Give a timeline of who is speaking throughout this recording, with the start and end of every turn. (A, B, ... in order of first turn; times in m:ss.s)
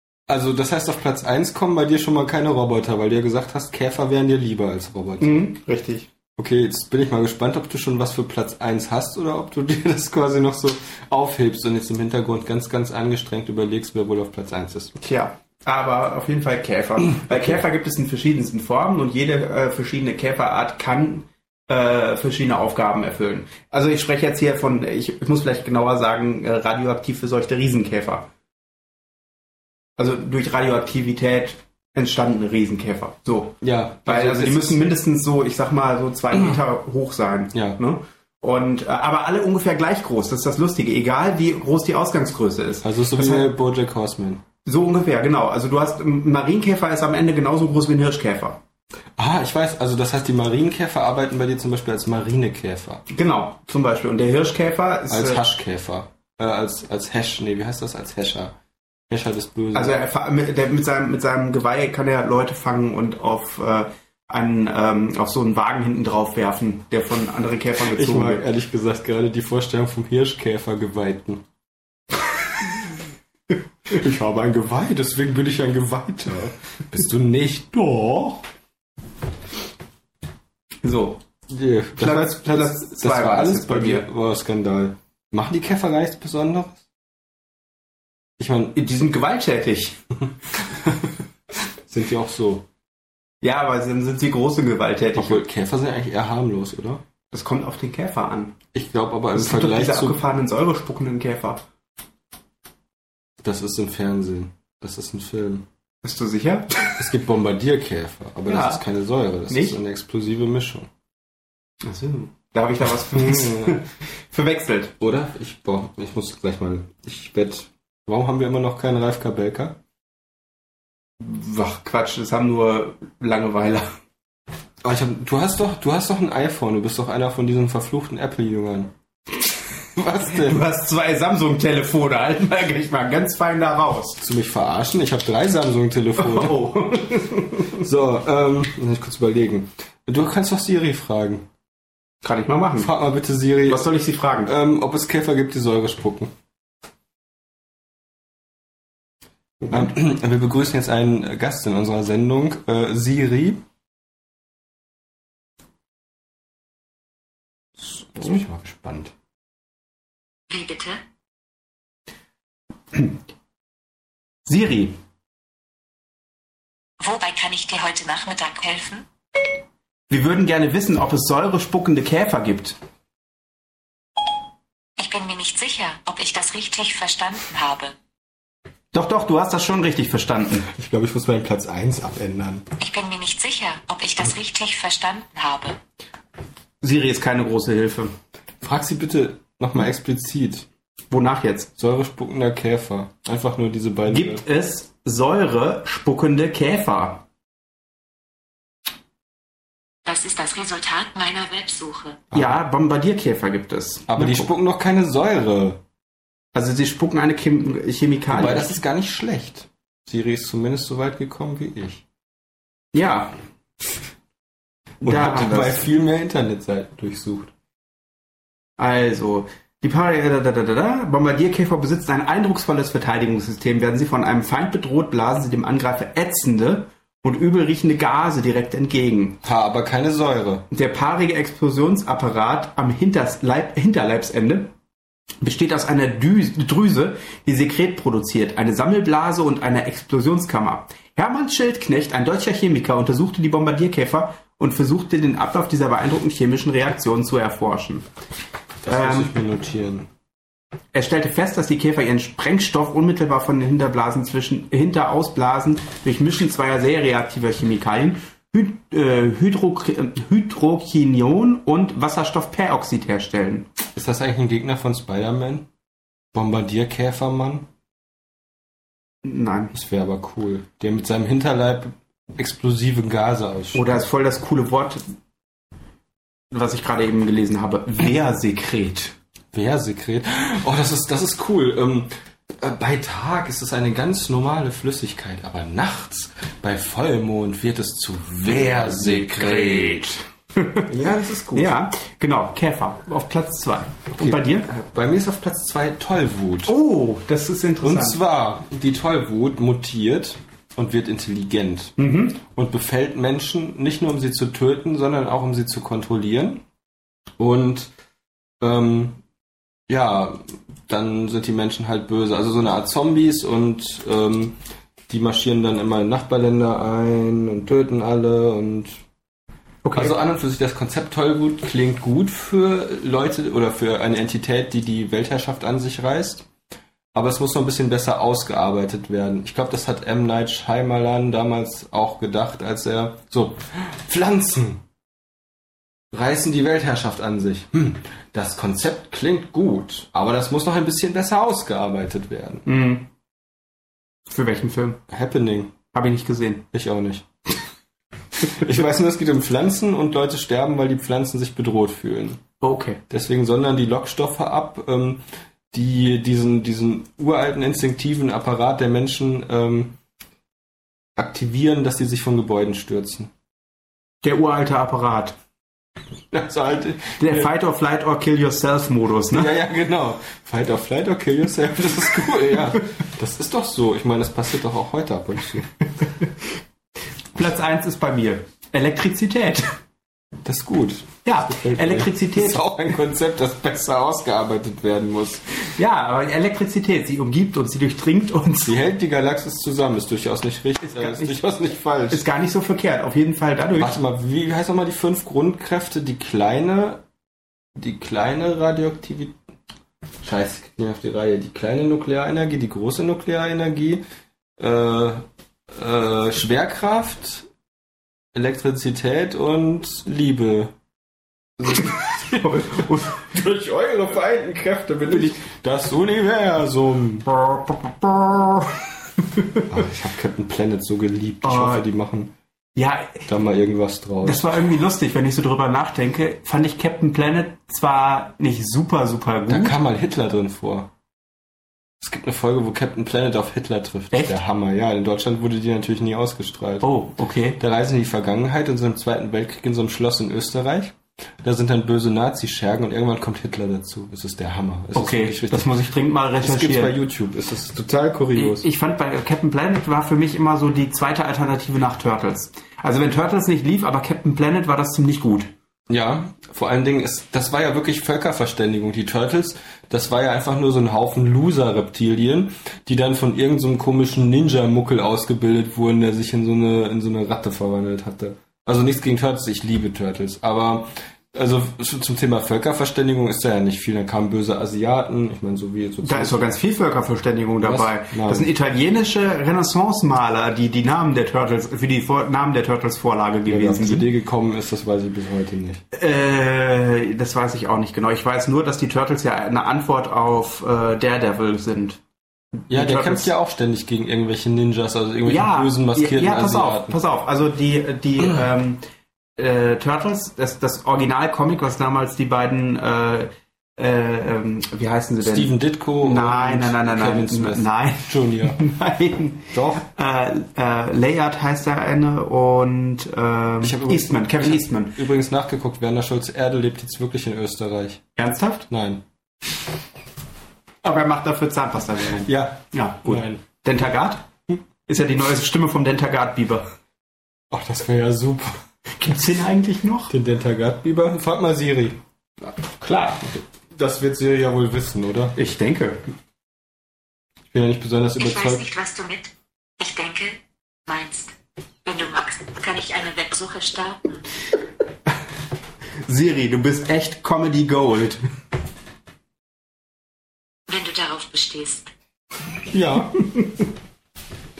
0:00.3-0:05.4 A
0:05.2-0:06.1 B
0:06.4-0:14.9 A
0:15.0-0:28.3 B
0:30.0-0:43.5 B
0:33.6-0:34.9 A
0:37.5-0:37.8 A
0:42.8-0:44.4 A
0:44.6-0:48.6 B
0:49.2-0:53.0 A
0:53.1-0:55.4 B
0:55.1-0:58.5 A
0:59.1-1:00.0 A
0:59.7-1:08.4 B
1:07.8-1:11.4 A
1:13.9-1:18.4 A
1:20.8-1:21.2 B
1:21.5-1:26.8 A
1:22.0-1:24.1 B
1:28.4-1:28.8 A
1:28.7-1:30.0 B
1:31.9-1:32.6 A
1:33.4-1:35.4 B
1:35.1-1:37.0 A
1:37.3-1:38.5 B
1:38.7-1:40.2 A
1:39.3-1:41.6 B
1:43.4-1:45.6 A
1:46.0-1:47.0 B
1:47.0-1:50.9 A
1:48.5-1:48.8 B
1:49.5-1:49.8 B
1:51.8-1:54.9 B
1:53.1-1:53.8 A
1:55.0-1:59.8 A
2:01.2-2:03.9 B
2:04.8-2:08.9 A
2:10.0-2:10.6 A
2:10.2-2:14.2 B
2:14.2-2:16.9 A
2:16.2-2:17.8 B
2:17.7-2:21.5 A
2:22.2-2:22.9 B
2:22.8-2:23.9 A
2:23.6-2:24.5 B
2:24.4-2:26.3 A
2:29.6-2:29.9 B
2:29.7-2:33.6 A
2:38.1-2:39.1 A
2:40.5-2:41.0 C
2:44.4-2:45.0 B
2:47.0-2:49.0 C
2:50.1-2:52.8 B
2:55.0-2:57.9 C
2:58.9-3:00.7 B
3:00.7-3:02.6 A
3:02.8-3:05.8 C
3:06.8-3:08.1 B
3:08.6-3:10.6 A
3:11.1-3:11.7 B
3:11.8-3:14.4 A
3:14.1-3:17.2 B
3:20.0-3:22.2 C
3:22.3-3:22.6 A
3:22.3-3:24.5 B
3:24.1-3:25.8 A
3:26.5-3:28.8 B
3:28.3-3:32.0 A
3:32.9-3:33.3 B
3:35.0-3:35.8 B
3:35.0-3:37.5 A
3:38.8-3:49.4 B
3:49.4-3:50.6 A
3:50.7-3:54.7 B
3:55.4-4:08.0 B
4:08.8-4:10.1 A
4:08.8-4:09.3 B
4:10.9-4:23.7 B
4:23.9-4:25.7 A
4:26.3-4:27.7 A
4:29.2-4:29.7 B
4:29.7-4:33.8 A
4:33.7-4:35.0 B
4:36.5-4:39.1 B
4:39.5-4:50.1 A
4:48.5-4:50.9 B
4:50.9-4:51.7 A
4:51.5-4:54.7 B
4:54.1-4:56.7 A
4:56.6-4:58.2 B
4:57.8-5:06.6 A
5:02.0-5:02.4 B
5:07.4-5:07.9 A
5:08.6-5:09.2 A
5:09.9-5:14.6 A
5:15.1-5:19.0 A
5:19.8-5:20.1 B
5:19.9-5:26.5 A
5:27.1-5:34.8 A
5:36.1-5:42.6 A
5:42.6-5:43.1 B
5:44.3-5:45.0 B
5:45.1-5:45.7 A
5:45.9-5:46.6 B
5:46.7-5:47.2 A
5:48.4-5:52.4 A
5:52.6-5:53.0 B
5:53.1-6:00.0 A
6:01.2-6:03.3 A
6:04.2-6:05.4 B
6:06.3-6:07.5 A
6:07.2-6:09.5 B
6:09.3-6:15.7 A
6:17.3-6:19.7 B
6:20.4-6:25.4 A
6:21.2-6:22.6 B
6:25.7-6:28.8 B
6:28.6-6:32.2 A
6:30.8-6:31.4 B
6:32.1-6:34.0 B
6:33.8-6:37.0 A
6:37.8-6:39.4 A
6:40.2-6:44.0 A
6:44.6-6:47.5 A
6:48.3-6:50.7 A
6:51.6-6:57.3 A
6:52.4-6:53.2 B
6:55.1-6:55.4 B
6:57.3-6:59.6 B
6:59.7-7:02.3 A
7:01.4-7:01.8 B
7:02.8-7:03.2 B
7:03.3-7:04.6 A
7:04.2-7:09.8 B
7:09.5-7:10.9 A
7:12.0-7:16.9 A
7:16.8-7:17.6 B
7:17.6-7:25.7 A
7:24.9-7:26.9 B
7:26.4-7:28.6 A
7:28.3-7:35.5 B
7:35.9-7:56.5 A
7:56.0-8:04.0 B
7:57.6-7:58.5 A
8:03.4-8:05.8 A
8:05.9-8:12.0 B
8:12.6-8:13.3 B
8:12.7-8:17.0 A
8:15.2-8:18.8 B
8:19.4-8:35.0 B
8:25.2-8:28.6 A
8:29.5-8:29.8 A
8:33.6-8:38.0 A
8:38.2-8:38.7 B
8:38.7-8:39.0 A
8:40.8-8:44.3 B
8:42.2-8:43.4 A
8:44.8-8:46.7 B
8:47.5-8:48.6 A
8:48.9-8:50.1 B
8:50.1-8:52.0 A
8:52.7-8:53.3 B
8:53.7-8:55.4 A
8:55.4-8:56.0 B
8:57.5-8:58.7 A
8:58.2-9:04.2 C
9:06.0-9:08.2 B
9:10.7-9:11.9 C
9:12.7-9:13.1 A
9:12.8-9:13.7 B